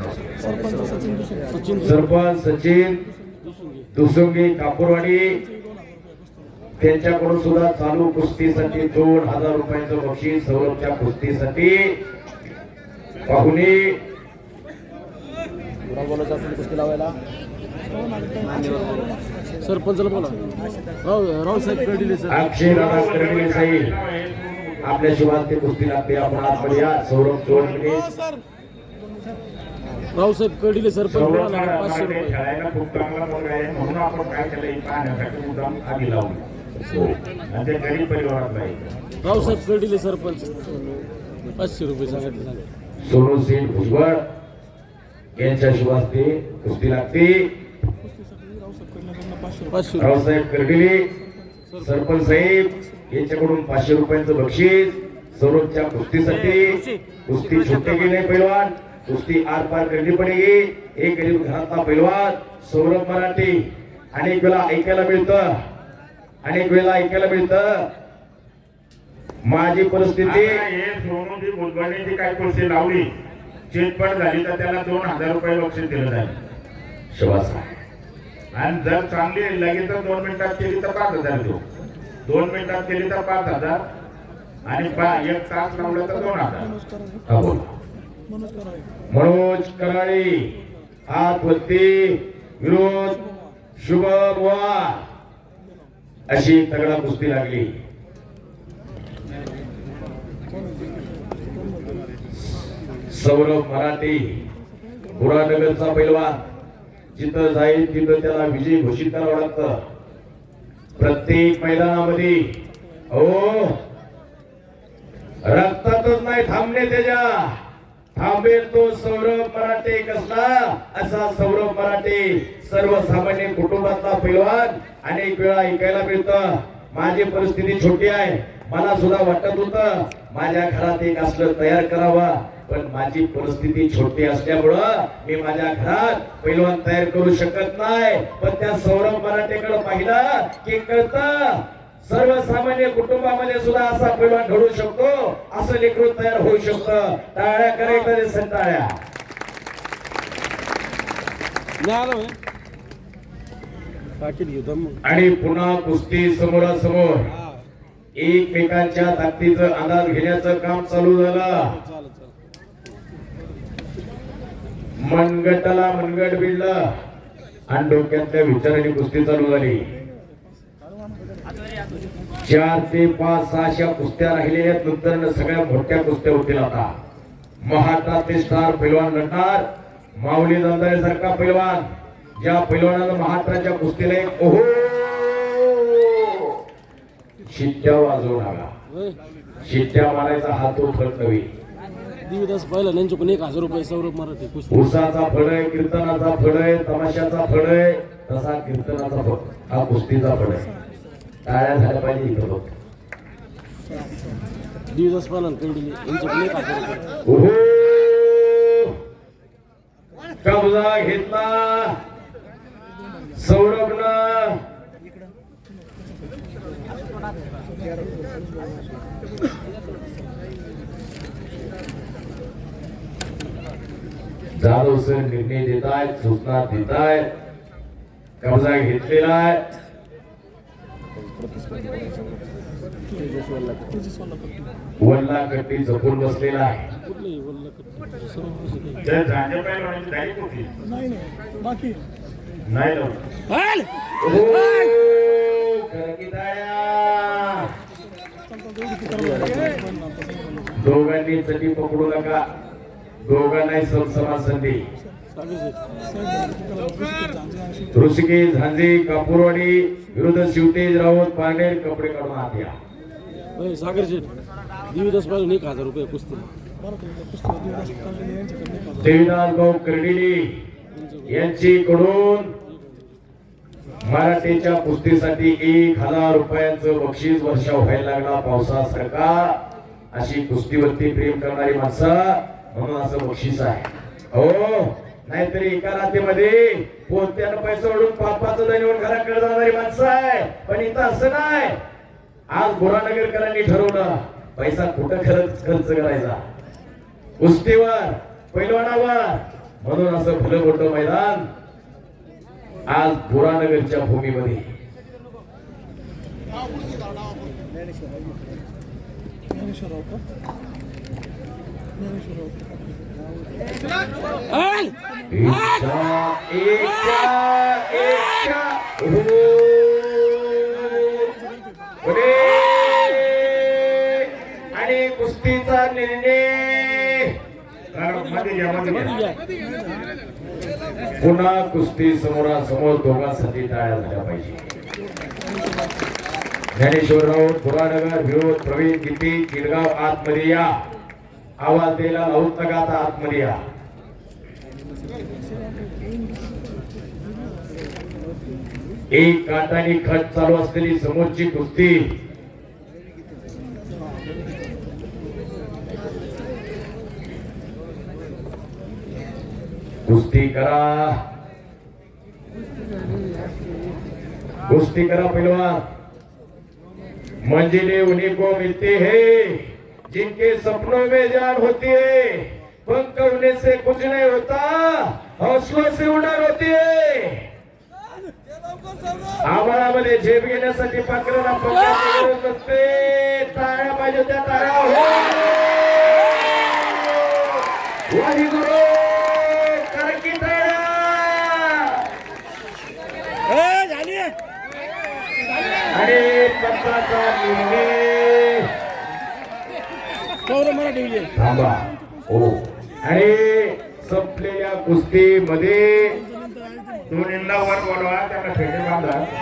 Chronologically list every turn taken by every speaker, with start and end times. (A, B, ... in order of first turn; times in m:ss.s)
0:00.4-0:01.3 A
0:01.5-0:01.9 B
0:01.8-0:03.0 C
0:03.4-0:03.8 B
0:03.9-0:05.4 C
0:06.8-0:12.0 C
0:13.3-0:14.0 C
0:16.1-0:16.9 B
0:16.3-0:17.1 A
0:18.2-0:19.1 A
0:19.6-0:20.5 B
0:21.0-0:22.3 B
0:22.3-0:23.9 C
0:22.6-0:25.0 D
0:24.8-0:28.0 C
0:27.5-0:28.0 D
0:30.1-0:32.3 B
0:31.0-0:36.4 D
0:36.9-0:37.1 C
0:37.5-0:38.9 D
0:39.2-0:40.8 B
0:41.6-0:42.6 B
0:43.0-0:44.2 C
0:45.4-0:47.5 C
0:49.0-0:49.5 A
0:49.7-0:50.0 B
0:49.9-0:51.0 C
0:51.8-1:03.6 C
1:04.1-1:05.5 C
1:06.4-1:07.8 C
1:09.4-1:10.6 C
1:10.2-1:13.1 D
1:13.7-1:16.4 D
1:17.1-1:17.7 C
1:18.5-1:21.6 D
1:22.2-1:23.8 D
1:24.6-1:26.7 D
1:27.3-1:27.7 C
1:29.1-1:30.5 C
1:31.1-1:33.2 C
1:33.8-1:35.0 C
1:36.3-1:37.7 C
1:43.1-1:44.4 C
1:45.1-1:46.4 C
1:47.1-1:49.8 C
1:51.0-1:52.5 C
1:53.1-1:53.8 C
1:55.4-1:57.6 C
1:58.1-2:29.0 C
2:31.8-2:32.4 B
2:34.2-2:35.0 B
2:35.0-2:37.3 C
2:38.2-2:41.8 C
2:45.0-2:47.0 C
2:47.7-2:49.9 C
2:52.4-2:56.9 C
2:57.6-2:59.7 C
3:00.2-3:01.9 C
3:02.4-3:06.6 C
3:07.5-3:08.7 C
3:09.6-3:11.5 C
3:12.2-3:14.7 B
3:14.7-3:20.7 C
3:21.4-3:22.7 C
3:24.9-3:27.1 B
3:27.2-3:28.9 C
3:30.4-3:32.0 C
3:33.3-3:34.6 C
3:44.6-3:47.3 C
3:48.4-3:49.6 C
3:55.0-3:56.9 C
3:57.0-3:59.0 B
3:59.0-4:00.7 D
4:02.7-4:03.2 D
4:03.6-4:03.9 B
4:04.2-4:07.7 C
4:09.1-4:09.6 B
4:10.7-4:12.4 C
4:13.2-4:14.8 C
4:15.3-4:15.8 B
4:16.4-4:17.7 A
4:17.9-4:22.7 C
4:23.6-4:24.3 B
4:24.9-4:26.5 B
4:27.4-4:28.8 A
4:28.9-4:30.6 C
4:31.3-4:32.5 C
4:34.1-4:39.6 C
4:40.1-4:51.8 C
4:52.5-4:56.4 C
4:57.4-5:01.5 C
5:02.9-5:04.6 C
5:15.3-5:21.3 C
5:22.0-5:27.3 C
5:27.9-5:29.2 D
5:31.2-5:34.6 C
5:36.8-5:40.7 C
5:41.6-5:43.6 C
5:49.1-5:52.2 C
6:00.1-6:01.2 C
6:04.7-6:05.8 C
6:07.4-6:17.4 C
6:19.4-6:32.1 C
6:33.6-6:34.3 B
6:35.9-6:38.7 C
6:40.4-6:41.3 B
6:41.3-6:46.2 C
6:47.1-6:49.3 D